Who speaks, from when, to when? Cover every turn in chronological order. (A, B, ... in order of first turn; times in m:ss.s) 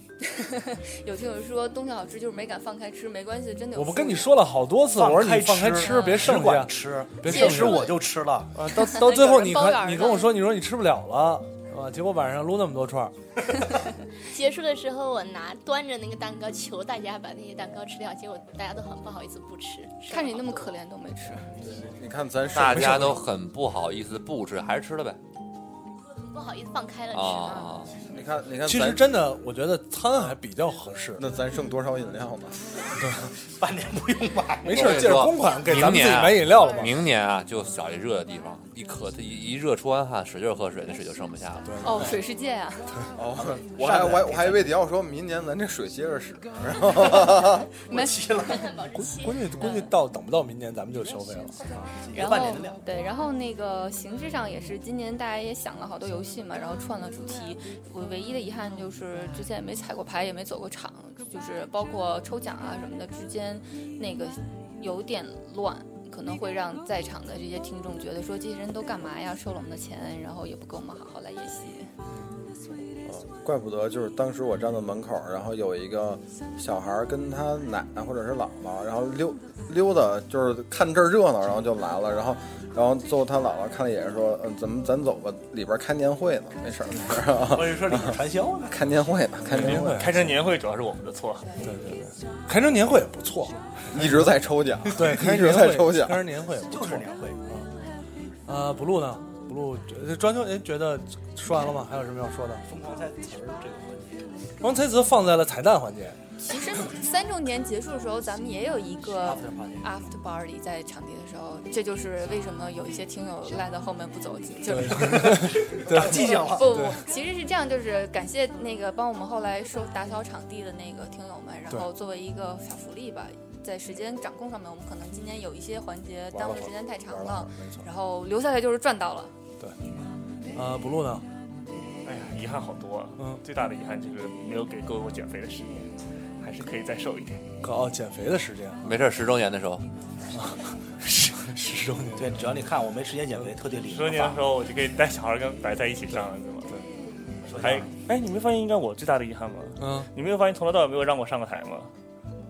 0:00.2-0:04.3 A
0:03.7-0:07.9 B
0:04.9-0:08.6 C
0:05.8-0:06.3 A
0:07.3-0:07.9 A
0:08.5-0:13.2 B
0:08.7-0:10.4 A
0:14.2-0:20.8 D
0:20.1-0:21.5 A
0:21.6-0:23.3 E
0:22.5-0:25.2 F
0:26.1-0:27.8 D
0:27.1-0:28.0 F
0:28.0-0:29.1 E
0:28.6-0:31.2 B
0:31.2-0:32.6 E
0:33.0-0:33.3 B
0:33.4-0:35.0 C
0:34.6-0:37.0 B
0:34.7-0:42.0 F
0:41.6-0:42.2 B
0:41.8-0:43.0 A
0:43.2-0:47.7 E
0:43.6-0:44.7 C
0:47.9-0:48.7 C
0:47.9-0:48.8 A
0:48.4-0:49.9 D
0:48.9-0:51.9 B
0:49.6-0:49.9 A
0:51.8-0:52.8 C
0:52.1-1:11.9 A
1:13.0-1:28.2 E
1:27.4-1:28.9 C
1:28.7-1:30.0 E
1:29.5-1:30.3 B
1:29.5-1:31.5 G
1:31.6-1:34.3 B
1:33.9-1:36.2 E
1:34.9-1:37.7 B
1:36.7-1:37.4 C
1:38.5-1:42.7 B
1:42.6-1:44.5 C
1:44.6-1:46.2 B
1:46.4-2:09.3 A
1:49.2-1:49.9 C
1:54.7-1:57.0 B
1:55.3-1:56.7 C
2:06.3-2:07.9 B
2:10.5-2:11.3 B
2:12.0-2:17.4 G
2:17.6-2:19.0 B
2:18.8-2:19.8 F
2:20.3-2:22.6 B
2:22.2-2:24.4 C
2:23.9-2:26.7 G
2:27.5-2:27.9 C
2:27.6-2:31.9 G
2:29.8-2:30.1 B